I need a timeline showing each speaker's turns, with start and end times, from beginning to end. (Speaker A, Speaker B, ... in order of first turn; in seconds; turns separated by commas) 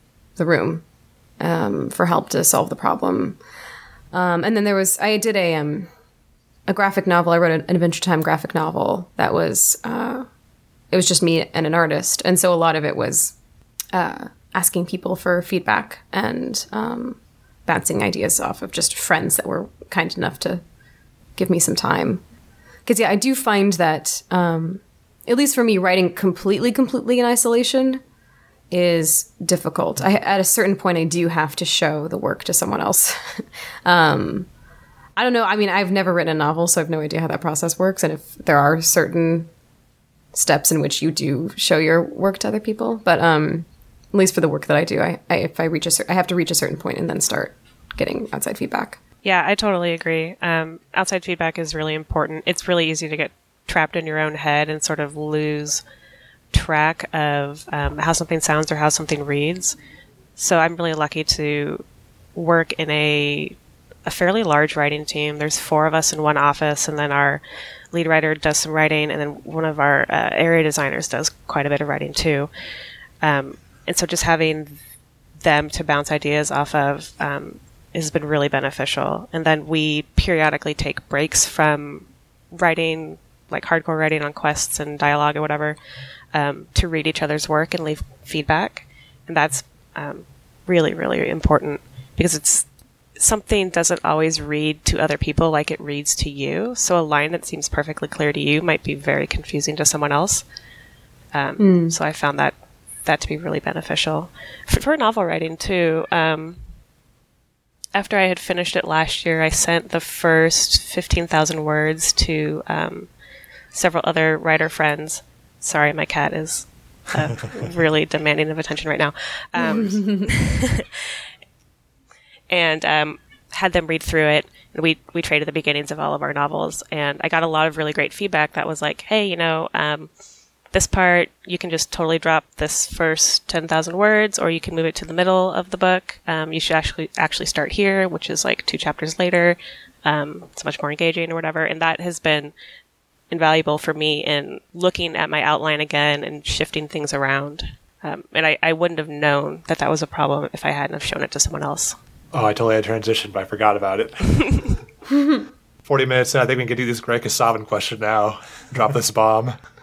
Speaker A: 0.4-0.8, Speaker A: 1.4-3.4, Speaker A: 4.1-5.9, Speaker A: 6.7-10.2, Speaker A: 10.9-13.3, Speaker A: 13.9-20.6, Speaker A: 21.4-22.2, Speaker A: 22.9-28.0, Speaker A: 28.7-34.5, Speaker A: 35.1-39.5, Speaker A: 40.3-49.0, Speaker B: 49.2-55.8, Speaker B: 56.5-59.8, Speaker B: 60.4-61.8, Speaker B: 62.4-72.5, Speaker B: 73.2-74.8, Speaker B: 75.4-85.8, Speaker B: 86.3-92.6, Speaker B: 93.2-100.4, Speaker B: 101.3-102.5, Speaker A: 101.6-101.9, Speaker B: 103.0-106.6, Speaker B: 107.9-113.1, Speaker B: 113.7-121.1, Speaker A: 119.6-120.3, Speaker B: 122.5-130.1, Speaker B: 130.7-142.5, Speaker B: 143.3-151.9, Speaker C: 152.3-154.7, Speaker C: 155.8-159.6